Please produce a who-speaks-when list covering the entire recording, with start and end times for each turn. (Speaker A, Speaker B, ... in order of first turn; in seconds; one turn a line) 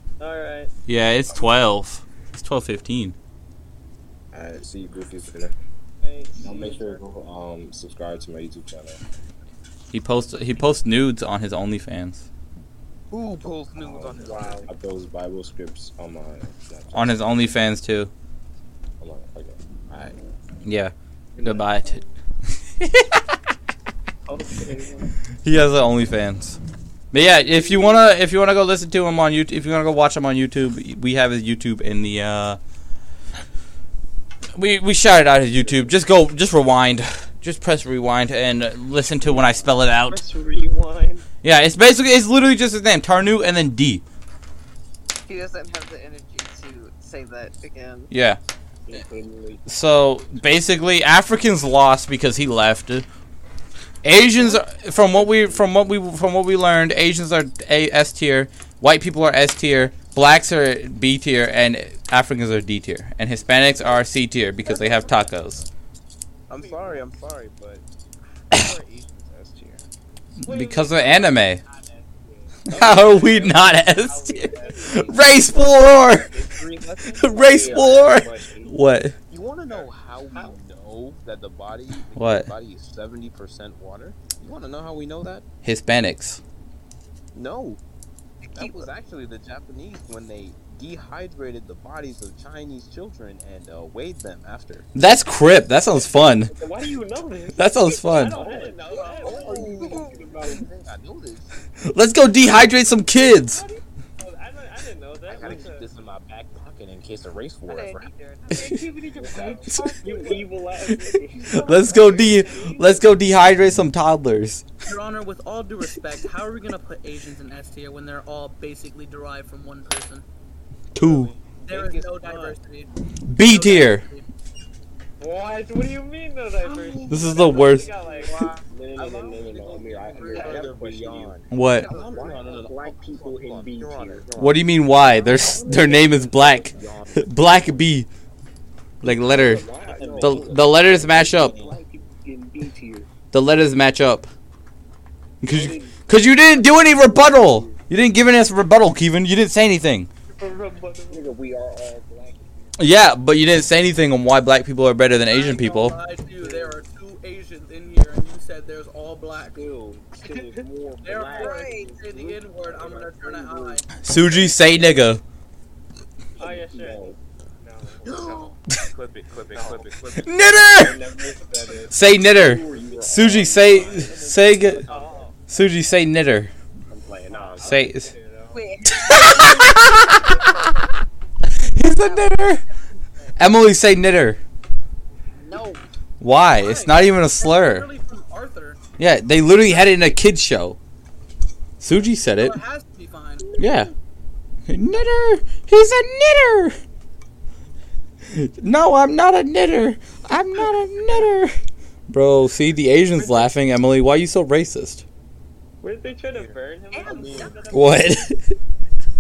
Speaker A: 0.2-0.7
Speaker B: 0.9-3.1
Speaker C: 4.3-5.5
Speaker A: 6.0-7.0
Speaker C: 6.4-9.0
Speaker B: 9.9-12.2
Speaker D: 13.1-14.7
Speaker C: 13.7-17.4
Speaker A: 14.2-14.7
Speaker B: 16.9-18.1
Speaker C: 19.0-20.1
Speaker B: 20.6-22.0
Speaker B: 22.8-23.2
Speaker A: 24.3-25.1
Speaker B: 25.4-26.6
Speaker B: 27.1-32.6
Speaker B: 34.5-40.2
Speaker A: 40.1-41.2
Speaker B: 41.4-44.0
Speaker E: 45.2-48.1
Speaker B: 48.1-48.4
Speaker D: 48.9-49.2
Speaker B: 49.6-53.0
Speaker B: 54.0-65.7
Speaker D: 66.5-67.8
Speaker A: 66.5-67.0
Speaker D: 68.5-69.8
Speaker B: 70.4-71.6
Speaker A: 70.4-71.4
Speaker D: 72.3-78.7
Speaker A: 72.7-75.4
Speaker B: 72.7-76.3
Speaker B: 77.1-79.1
Speaker D: 79.3-85.5
Speaker A: 79.7-80.5
Speaker B: 82.1-82.5
Speaker B: 85.6-86.4
Speaker D: 87.3-87.8
Speaker E: 88.4-88.9
Speaker D: 88.5-94.9
Speaker B: 94.9-96.5
Speaker A: 95.9-96.2
Speaker A: 97.1-100.2
Speaker B: 97.5-98.3
Speaker D: 98.3-101.7
Speaker F: 98.3-100.5
Speaker E: 98.9-100.1
Speaker B: 101.9-103.6
Speaker A: 103.3-105.9
Speaker D: 105.2-108.1
Speaker E: 107.7-110.4
Speaker A: 108.5-113.2
Speaker D: 108.7-110.4
Speaker B: 111.5-114.7
Speaker D: 111.6-112.5
Speaker E: 111.9-112.2
Speaker G: 114.8-120.2
Speaker B: 120.9-121.3
Speaker D: 121.0-122.6
Speaker G: 121.7-124.2
Speaker B: 123.2-124.0
Speaker A: 125.2-128.5
Speaker G: 126.6-127.4
Speaker B: 127.1-127.9
Speaker D: 128.4-134.6
Speaker F: 128.9-131.3
Speaker G: 130.2-130.5
Speaker C: 130.4-130.7
Speaker B: 131.5-131.9
Speaker F: 132.1-134.5
Speaker B: 134.4-138.1
Speaker F: 135.4-136.3
Speaker D: 136.0-137.7
Speaker B: 139.0-139.6
Speaker F: 139.2-143.1
Speaker D: 139.4-141.8
Speaker C: 140.0-140.4
Speaker B: 140.2-141.5
Speaker B: 143.3-144.3
Speaker B: 145.4-150.1
Speaker F: 145.5-145.9
Speaker D: 146.4-146.7
Speaker F: 146.6-147.7
Speaker A: 150.3-151.2
Speaker F: 151.1-152.4
Speaker B: 152.8-156.0
Speaker G: 155.2-159.8
Speaker D: 156.4-156.8
Speaker D: 159.5-163.8
Speaker A: 160.2-160.6
Speaker G: 161.0-163.9
Speaker E: 161.3-162.1
Speaker B: 164.0-165.2
Speaker D: 164.5-164.9
Speaker D: 166.3-167.1
Speaker A: 166.4-168.5
Speaker D: 168.1-175.3
Speaker A: 169.5-169.8
Speaker B: 170.2-171.0
Speaker B: 171.9-174.8
Speaker F: 172.1-173.5
Speaker A: 174.8-175.3
Speaker B: 175.5-176.5
Speaker D: 177.2-177.6
Speaker A: 177.3-178.6
Speaker B: 177.6-178.1
Speaker E: 178.5-180.7
Speaker B: 178.9-180.3
Speaker B: 181.7-182.6
Speaker E: 181.8-183.4
Speaker B: 183.4-184.4
Speaker E: 185.3-185.8
Speaker B: 186.2-187.9
Speaker G: 186.5-188.8
Speaker B: 189.0-190.8
Speaker B: 191.8-192.6
Speaker G: 191.9-193.6
Speaker B: 193.6-193.9
Speaker B: 194.7-196.8
Speaker B: 198.3-201.5
Speaker B: 202.1-205.0
Speaker A: 205.8-207.7
Speaker D: 206.0-207.9
Speaker E: 206.9-208.2
Speaker B: 207.7-208.5